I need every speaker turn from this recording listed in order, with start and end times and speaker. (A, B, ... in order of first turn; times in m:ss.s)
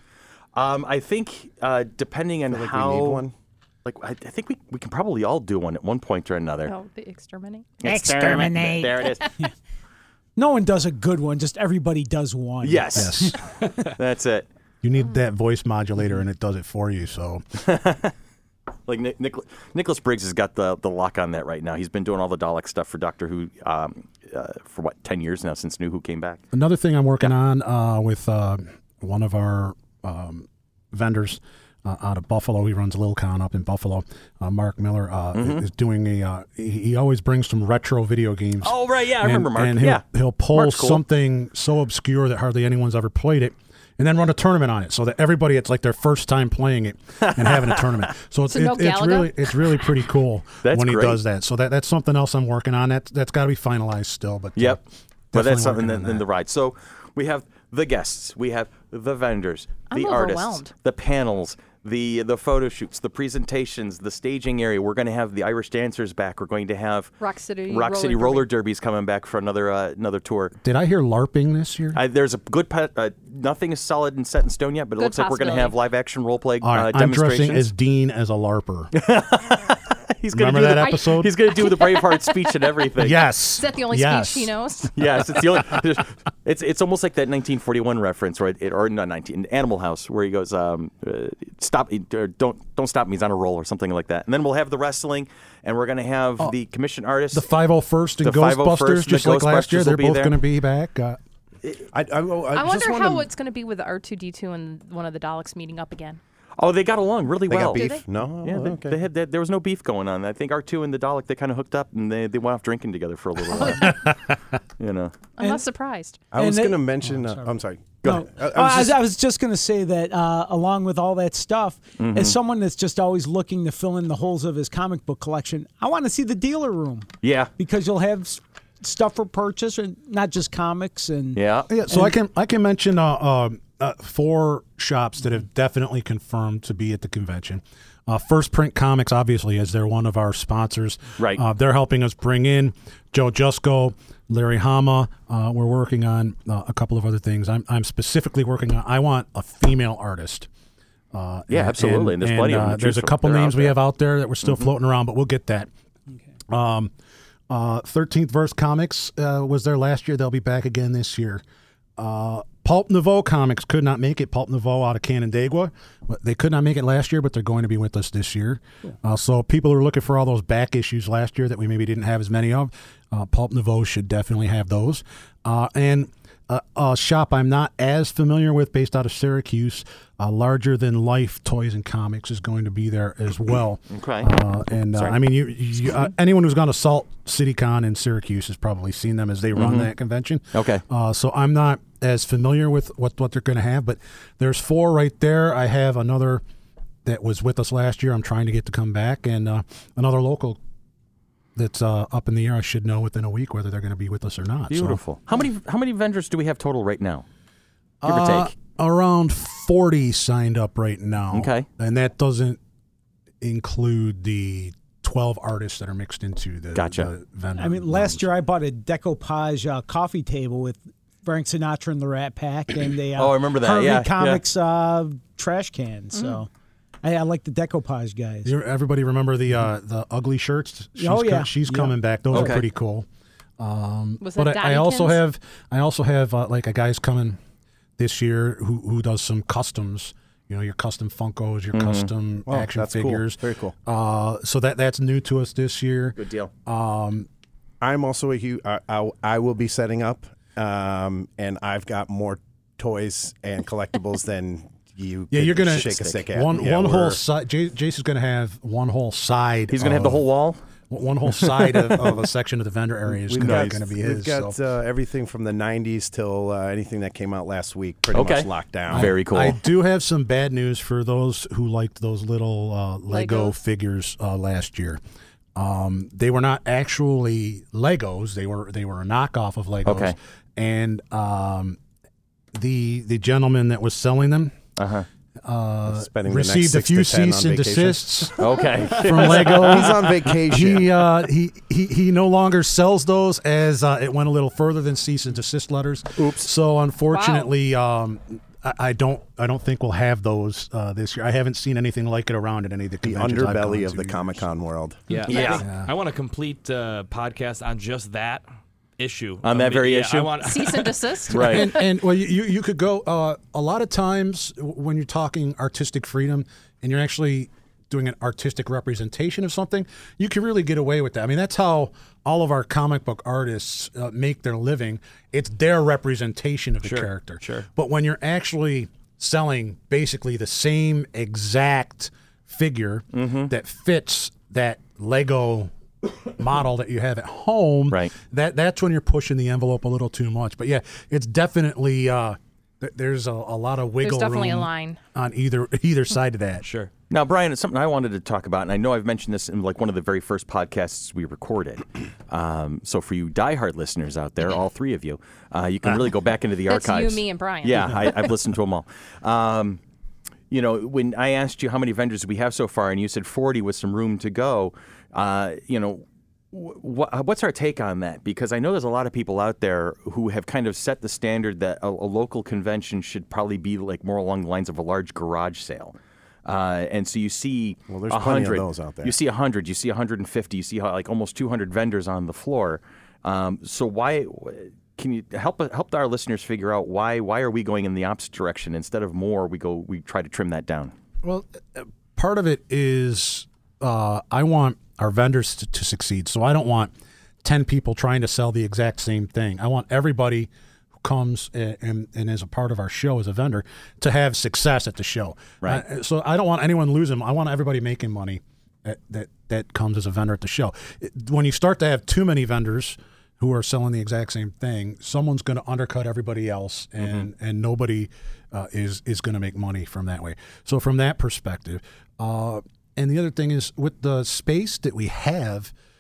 0:00.6-0:03.3 A
0:02.5-0:03.3 B
0:03.8-0:06.7 A
0:06.7-0:07.8 C
0:07.8-0:09.3 A
0:07.8-0:09.5 D
0:10.4-0:13.4 D
0:12.6-0:14.5 A
0:13.0-0:13.4 E
0:14.8-0:17.4 E
0:17.6-0:18.1 A
0:18.9-0:26.4 A
0:26.5-0:56.2 E
0:35.3-0:35.6 A
0:38.6-0:41.0 A
0:47.2-0:47.8 A
0:48.5-0:49.5 C
0:50.6-0:51.2 A
0:54.6-0:54.8 A
0:55.3-1:07.1 A
0:59.9-1:00.7 C
1:07.2-1:08.5 C
1:07.7-1:10.6 A
1:10.6-1:12.0 E
1:11.9-1:17.7 A
1:15.0-1:15.8 C
1:16.6-1:18.9 E
1:18.9-1:23.2 A
1:20.3-1:21.3 E
1:21.1-1:22.5 C
1:23.0-1:24.5 E
1:23.6-1:25.4 C
1:25.0-1:37.4 A
1:37.3-1:41.2 E
1:38.2-1:40.4 A
1:41.9-1:43.3 B
1:42.5-1:46.2 C
1:46.6-1:47.9 A
1:47.5-1:49.0 B
1:47.7-1:48.0 C
1:48.4-1:54.2 A
1:53.6-1:53.9 C
1:54.8-1:55.1 A
1:55.4-1:56.2 C
1:56.3-1:59.0 B
1:56.3-2:12.1 D
2:02.0-2:02.4 A
2:07.2-2:07.5 A
2:11.4-2:11.7 A
2:11.7-2:30.5 E
2:31.1-2:35.7 E
2:31.5-2:33.8 A
2:36.5-2:36.9 E
2:37.5-2:41.4 E
2:42.0-3:16.4 E
3:03.9-3:04.3 A
3:04.9-3:05.2 A
3:09.6-3:09.9 A
3:10.5-3:10.8 A
3:17.0-3:20.6 E
3:21.6-3:25.0 E
3:24.7-3:27.2 A
3:28.0-3:32.6 E
3:28.1-3:28.5 A
3:31.3-3:31.7 A
3:33.4-3:38.2 E
3:36.8-3:37.1 A
3:37.6-3:46.5 D
3:43.2-3:44.4 A
3:46.1-3:46.4 C
3:47.0-3:48.5 D
3:48.4-3:53.1 E
3:51.0-3:52.5 D
3:52.3-3:52.6 A
3:53.6-3:57.4 E
3:54.2-3:55.2 C
3:58.0-4:07.3 E
4:01.7-4:02.1 A
4:02.5-4:03.8 B
4:06.2-4:06.5 A
4:07.8-4:17.2 B
4:15.3-4:20.3 E
4:15.7-4:16.2 A
4:19.7-4:20.6 A
4:20.9-4:24.6 E
4:21.4-4:22.0 A
4:23.1-4:29.2 B
4:23.4-4:23.8 A
4:28.1-4:29.6 A
4:28.9-4:35.0 E
4:33.1-4:33.6 C
4:35.6-4:41.8 E
4:39.8-4:40.2 A
4:42.5-4:44.6 E
4:44.8-4:45.1 A
4:45.4-5:04.4 E
4:45.9-4:48.3 B
4:48.4-4:49.9 A
4:49.2-4:50.9 B
4:56.2-4:56.5 A
4:57.1-4:57.5 C
5:03.0-5:05.1 B
5:05.1-5:08.4 F
5:05.3-5:05.7 C
5:05.5-5:05.9 E
5:09.0-5:11.0 F
5:09.4-5:10.3 A
5:10.4-5:11.8 C
5:11.3-5:11.7 A
5:11.3-5:35.7 E
5:26.8-5:27.7 F
5:33.1-5:33.5 A
5:36.3-5:46.7 E
5:44.0-5:45.0 C
5:46.6-5:46.9 F
5:47.1-5:59.8 A
5:56.7-5:58.3 C
6:00.5-6:30.9 A
6:17.9-6:19.2 B
6:31.2-6:36.9 E
6:37.4-6:40.5 E
6:41.0-7:05.7 E